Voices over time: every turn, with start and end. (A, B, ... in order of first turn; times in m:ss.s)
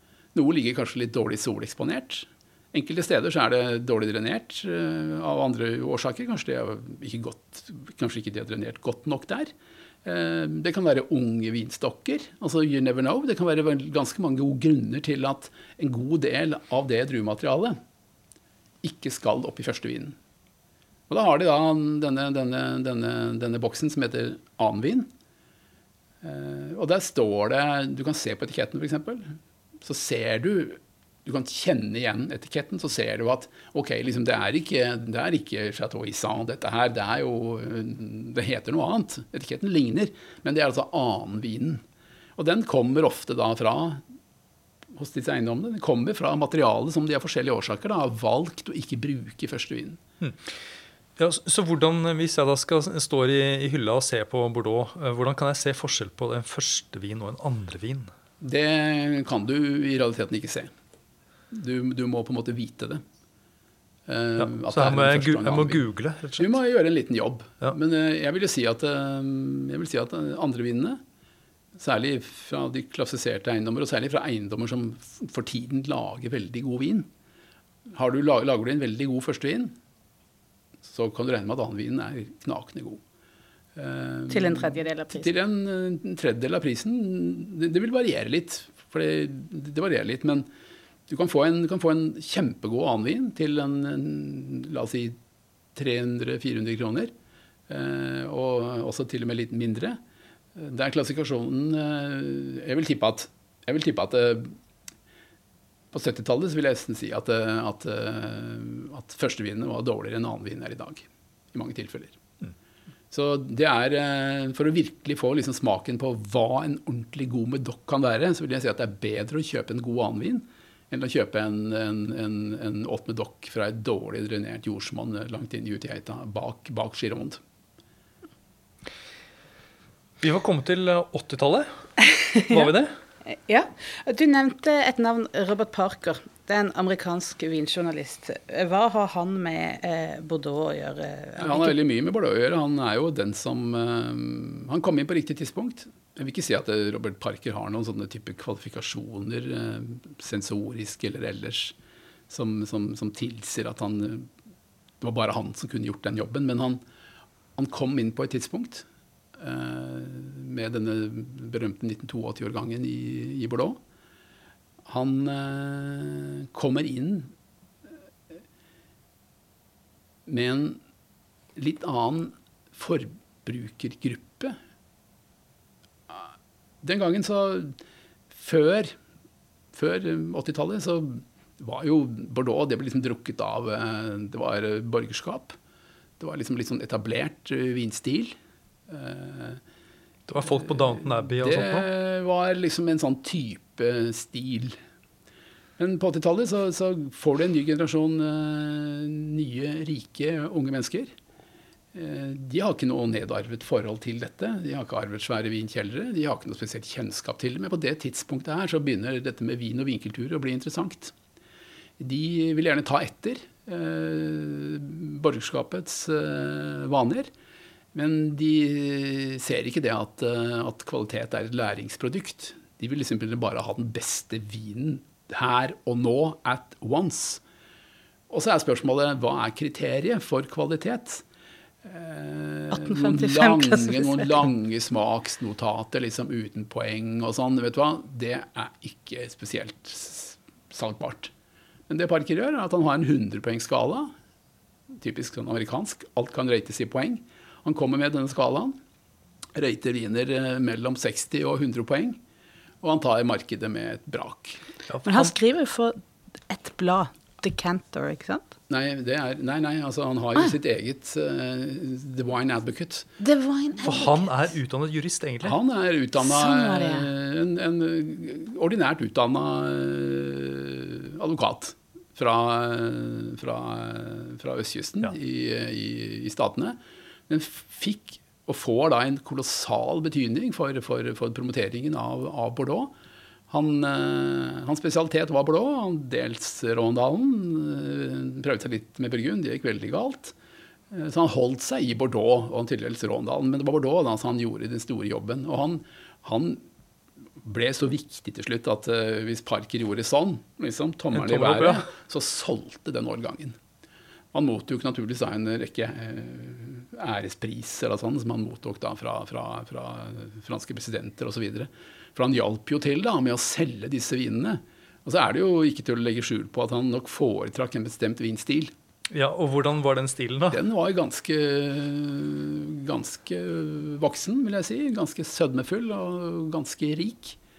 0:00.3-0:09.5 A
0:10.0-0:17.8 A
0:18.8-0:20.2 A
0:21.1-0:25.1 A
0:26.2-0:41.8 A
0:42.4-0:44.0 A
0:44.9-0:50.0 A
0:51.2-0:58.1 B
0:58.4-1:00.7 A
1:01.5-1:03.0 A
1:04.1-1:05.8 A
1:04.4-1:06.5 B
1:06.4-1:11.0 A
1:11.7-1:17.1 A
1:17.9-1:19.8 A
1:20.8-1:23.0 A
1:23.8-1:30.5 A
1:24.3-1:25.3 C
1:31.1-1:35.2 A
1:35.8-1:37.1 A
1:37.7-1:40.0 A
1:40.6-1:44.6 A
1:45.9-1:52.2 A
1:53.1-2:07.4 A
2:10.2-2:11.7 B
2:12.1-2:12.7 C
2:12.3-2:13.0 B
2:13.3-2:21.7 C
2:21.4-2:31.8 A
2:32.3-2:34.3 A
2:35.0-2:36.8 A
2:37.6-2:43.8 A
2:44.8-2:47.3 A
2:50.3-2:50.8 A
2:51.6-2:54.6 A
2:56.8-2:57.8 A
2:58.3-2:59.0 A
2:59.7-3:05.6 A
3:06.2-3:08.4 A
3:08.9-3:09.6 A
3:10.3-3:11.9 B
3:10.5-3:14.8 A
3:15.8-3:21.1 A
3:21.9-3:31.2 A
3:32.0-3:37.3 A
3:37.9-3:47.4 A
3:48.3-3:51.2 A
3:51.8-4:01.3 A
3:52.7-3:54.2 C
4:01.9-4:04.1 A
4:04.9-4:08.8 A
4:09.6-4:12.2 A
4:12.8-4:14.7 A
4:14.9-4:15.3 B
4:15.0-4:18.5 C
4:18.7-4:23.1 A
4:23.2-4:24.3 C
4:23.8-4:25.6 B
4:25.4-4:42.9 A
4:26.2-4:27.1 C
4:43.5-4:50.4 A
4:50.9-4:56.6 A
4:57.4-5:03.6 A
5:01.1-5:01.9 B
5:04.3-5:18.7 A
5:19.1-5:20.6 B
5:20.5-5:27.4 A